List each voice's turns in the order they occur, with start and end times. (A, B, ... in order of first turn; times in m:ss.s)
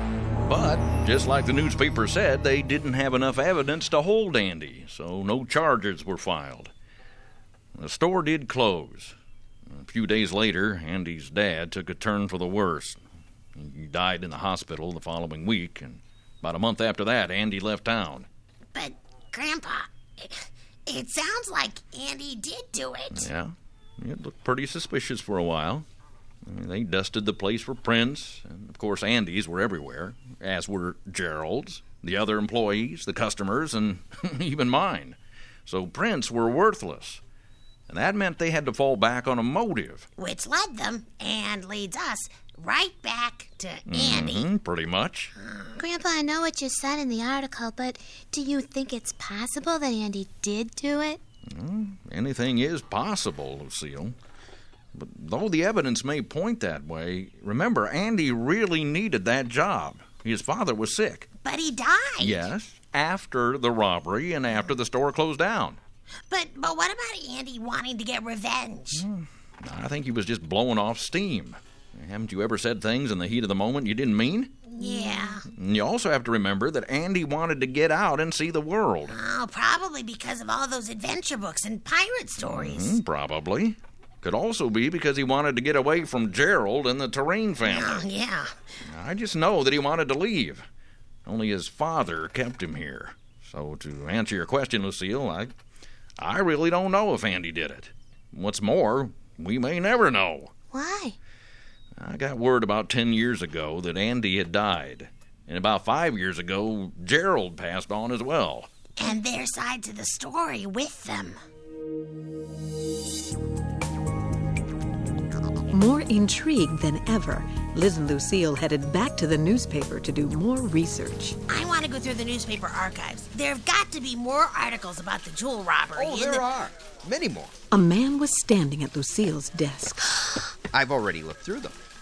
0:00.4-0:06.7 A
0:07.8-0:09.2 A
0:09.7-0:13.0 A
0:13.6-0:18.3 A
0:18.7-0:23.3 B
0:23.1-0:25.8 A
0:26.4-0:37.2 A
0:37.9-0:40.1 A
0:40.2-0:44.5 B
0:43.9-0:45.3 A
0:45.4-0:45.8 B
0:45.8-0:51.2 C
0:51.5-0:54.2 A
0:54.9-1:01.3 A
1:01.4-1:02.5 B
1:02.2-1:05.8 A
1:06.3-1:09.0 B
1:08.9-1:14.6 A
1:14.7-1:15.5 B
1:14.8-1:15.4 C
1:15.5-1:19.2 A
1:19.1-1:23.0 B
1:22.4-1:28.1 A
1:27.6-1:28.5 B
1:28.8-1:30.6 A
1:31.3-1:35.5 A
1:36.2-1:40.5 A
1:40.7-1:41.2 C
1:42.0-1:48.7 A
1:49.0-1:51.4 B
1:55.7-2:01.4 D
2:01.5-2:06.4 B
2:05.9-2:07.5 E
2:07.7-2:10.1 D
2:10.7-2:11.8 E